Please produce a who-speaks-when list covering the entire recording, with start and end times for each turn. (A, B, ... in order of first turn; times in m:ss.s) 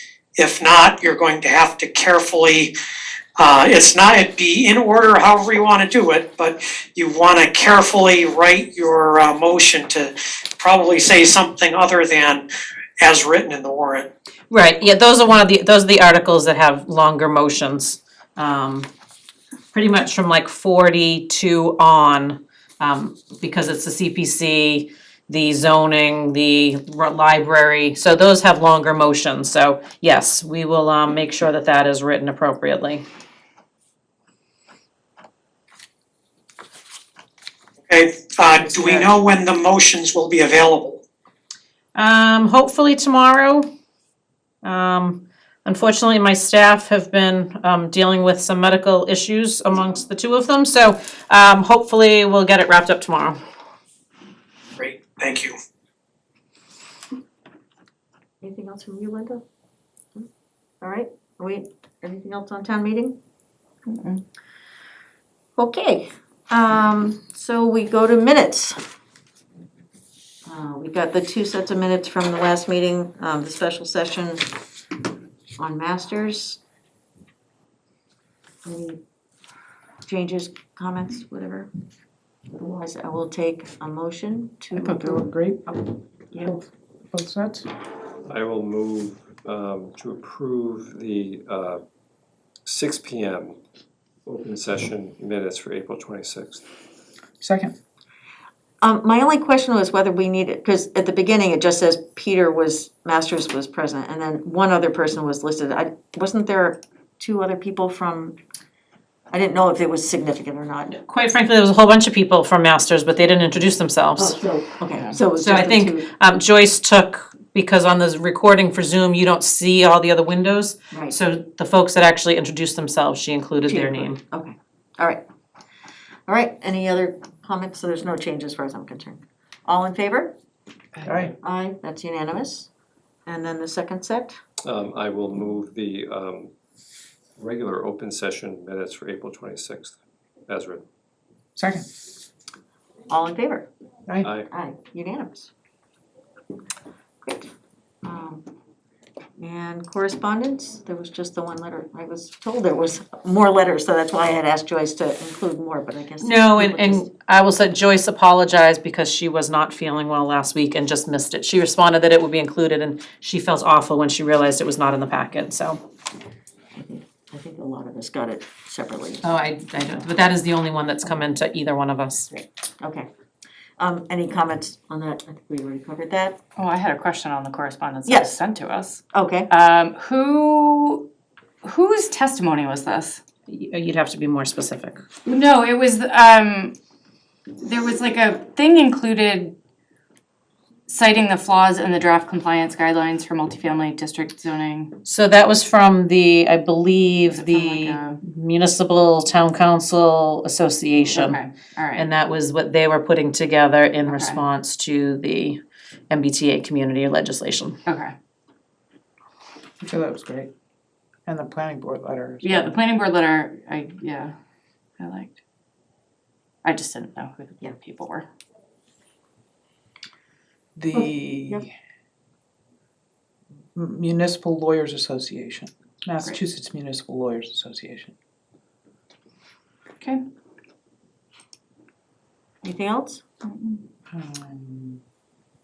0:00.4-0:02.7 A
0:03.4-0:12.5 A
0:13.0-0:14.1 A
0:14.5-0:18.9 B
0:19.7-0:33.0 B
0:37.9-0:41.0 A
0:38.6-0:38.9 C
0:41.9-0:43.7 B
0:44.6-0:53.4 B
0:54.8-0:55.6 A
0:58.4-0:59.4 D
1:00.8-1:03.2 D
1:03.9-1:04.2 E
1:05.6-1:08.8 D
1:10.4-1:14.5 D
1:15.6-1:16.6 D
1:18.6-1:19.0 D
1:20.0-1:21.7 D
1:22.6-1:25.3 D
1:24.7-1:27.7 C
1:26.3-1:26.6 D
1:28.2-1:31.8 F
1:32.6-1:33.6 F
1:34.2-1:36.6 F
1:37.4-1:37.7 C
1:38.8-1:48.4 D
1:49.3-1:50.9 D
1:50.9-1:54.4 B
1:54.2-1:56.1 D
1:55.4-2:04.2 B
2:03.7-2:05.2 D
2:06.3-2:10.3 D
2:11.0-2:11.3 C
2:11.4-2:12.7 D
2:13.2-2:14.4 D
2:14.6-2:16.5 F
2:17.4-2:20.0 F
2:20.5-2:20.8 F
2:21.6-2:21.8 C
2:23.1-2:23.7 D
2:24.1-2:24.3 C
2:24.5-2:25.5 D
2:27.2-2:27.5 D
2:28.0-2:28.4 D
2:29.4-2:37.1 D
2:36.2-2:45.8 B
2:46.7-2:49.2 D
2:49.2-2:52.3 B
2:52.8-2:53.1 D
2:53.8-2:56.4 D
2:56.6-3:01.1 E
2:58.0-2:58.4 D
2:59.1-2:59.5 D
3:01.6-3:03.2 E
3:03.5-3:05.0 B
3:05.2-3:06.8 E
3:07.6-3:09.5 E
3:10.9-3:14.9 E
3:15.0-3:21.4 B
3:17.3-3:18.2 E
3:21.1-3:22.1 E
3:21.9-3:27.8 B
3:24.1-3:24.4 E
3:27.8-3:28.1 E
3:29.8-3:30.5 C
3:31.2-3:32.7 C
3:32.4-3:34.3 E
3:35.0-3:35.4 E
3:36.6-3:38.3 E
3:40.8-3:41.7 C
3:40.9-3:41.6 D
3:43.7-3:48.1 C
3:52.6-3:53.2 D
3:53.4-3:53.8 E
3:54.1-3:55.0 C